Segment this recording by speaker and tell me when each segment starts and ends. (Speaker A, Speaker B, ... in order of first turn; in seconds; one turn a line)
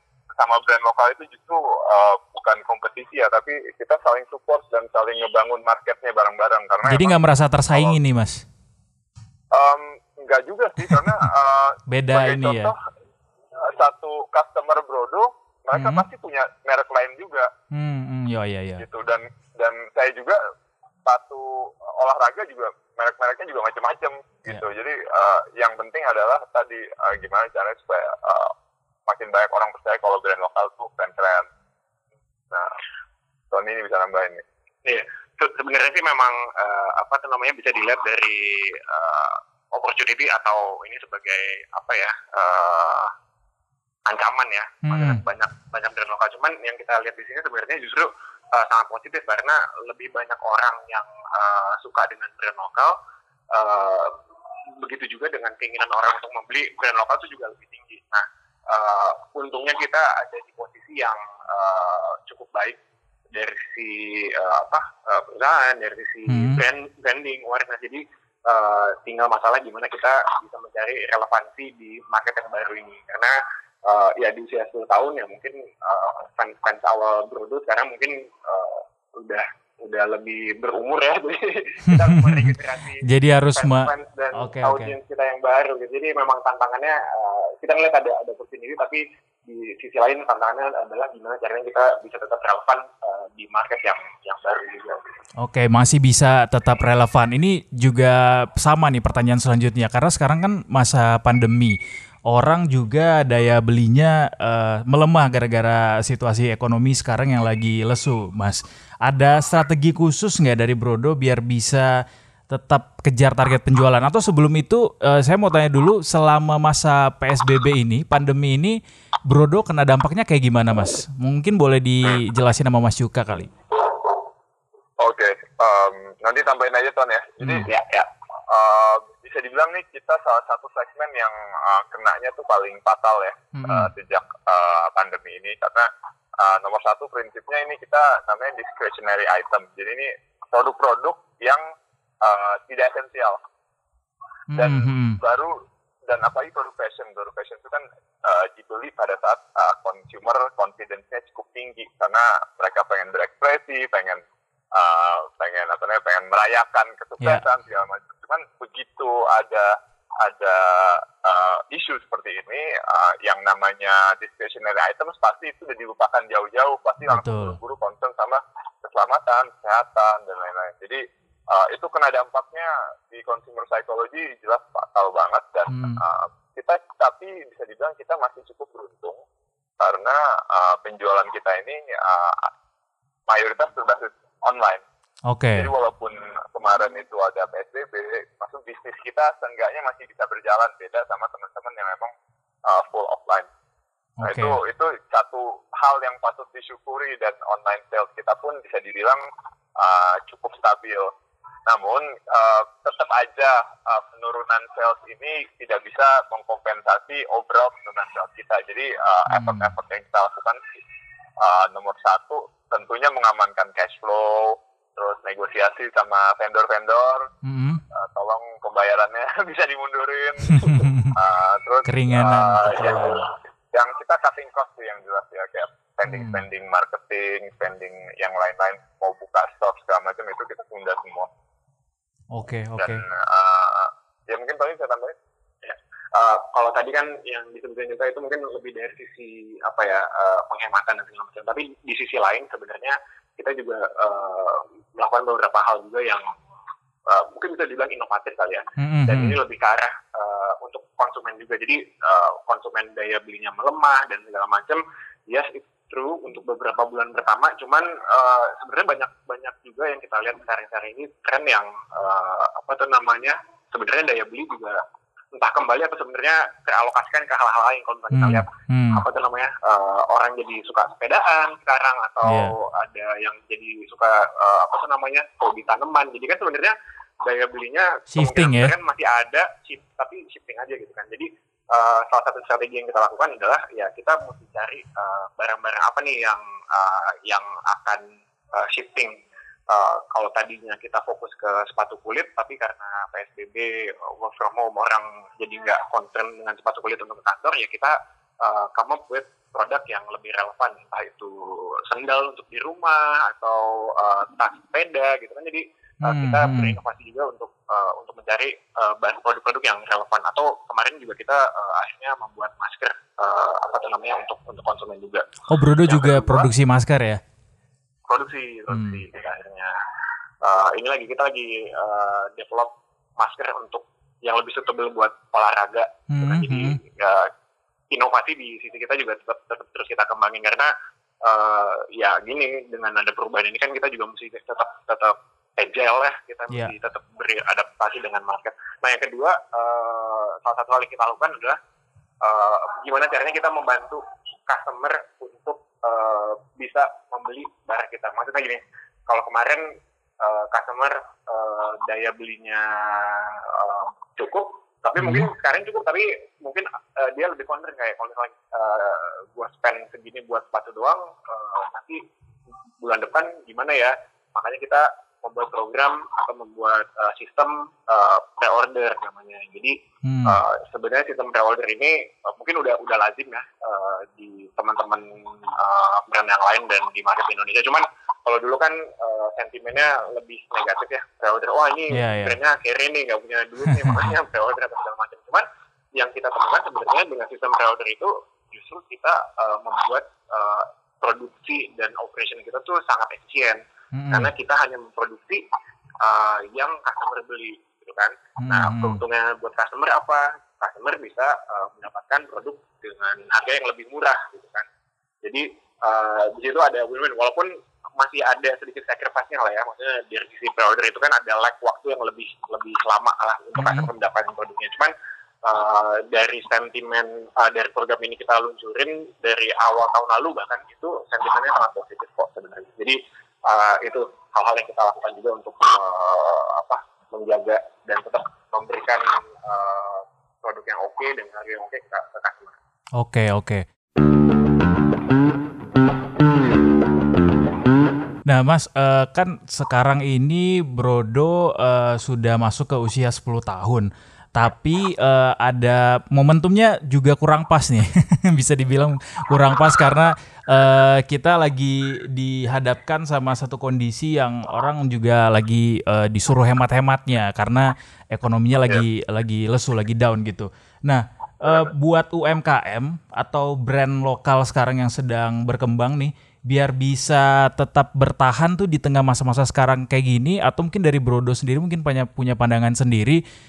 Speaker A: 0.4-7.2
Speaker B: 6.8-8.4
Speaker A: 7.7-8.0
Speaker A: 9.5-12.7
Speaker B: 11.9-12.7
Speaker A: 13.6-17.5
Speaker B: 15.7-16.0
Speaker B: 17.7-18.8
Speaker A: 18.8-20.4
Speaker A: 21.0-28.5
Speaker A: 29.1-31.5
Speaker A: 32.5-32.8
Speaker A: 33.5-34.4
Speaker C: 34.8-43.1
Speaker C: 44.0-53.0
Speaker B: 44.8-45.2
Speaker C: 53.5-54.2
Speaker C: 54.8-62.8
Speaker C: 63.3-95.1
Speaker B: 66.3-66.6
Speaker B: 81.9-84.9
Speaker B: 95.4-123.5
Speaker A: 125.0-127.7
Speaker B: 127.4-127.7
Speaker C: 127.7-128.1
Speaker A: 128.5-141.6
Speaker B: 133.5-133.9
Speaker A: 142.2-143.4
Speaker B: 144.5-145.2
Speaker A: 144.6-154.2
Speaker A: 154.7-179.2
Speaker B: 157.2-157.4
Speaker B: 167.1-167.6
Speaker B: 175.7-176.0
Speaker A: 179.8-182.5
Speaker A: 183.3-184.8
Speaker B: 185.3-185.7
Speaker A: 185.6-192.1
Speaker A: 192.7-193.5
Speaker B: 194.2-194.6
Speaker A: 194.2-199.2
Speaker A: 199.8-201.1
Speaker A: 201.7-210.8
Speaker B: 209.3-209.7
Speaker A: 211.4-217.3
Speaker B: 217.4-217.8
Speaker A: 217.9-231.3
Speaker B: 220.5-221.1
Speaker B: 221.8-223.2
Speaker B: 226.1-226.4
Speaker B: 232.3-233.0
Speaker A: 232.8-235.2
Speaker C: 235.6-246.2
Speaker C: 247.1-264.8
Speaker B: 248.8-249.4
Speaker C: 265.3-289.1
Speaker B: 268.1-269.0
Speaker B: 272.2-272.5
Speaker B: 278.1-278.7
Speaker C: 289.7-316.5
Speaker B: 306.1-306.8
Speaker B: 315.5-317.2
Speaker C: 318.1-319.8
Speaker B: 318.7-319.0
Speaker C: 320.4-327.3
Speaker B: 326.1-326.8
Speaker C: 327.9-330.7
Speaker C: 331.2-341.6
Speaker C: 342.2-362.0
Speaker B: 355.0-355.3
Speaker C: 362.8-395.5
Speaker B: 370.0-370.4
Speaker B: 381.9-382.4
Speaker B: 383.7-384.1
Speaker B: 393.9-394.3
Speaker C: 396.0-404.7
Speaker B: 398.4-399.0
Speaker C: 405.2-414.9
Speaker B: 413.6-413.9
Speaker C: 415.4-432.6
Speaker B: 433.0-433.6
Speaker B: 438.2-473.2
Speaker A: 461.4-461.7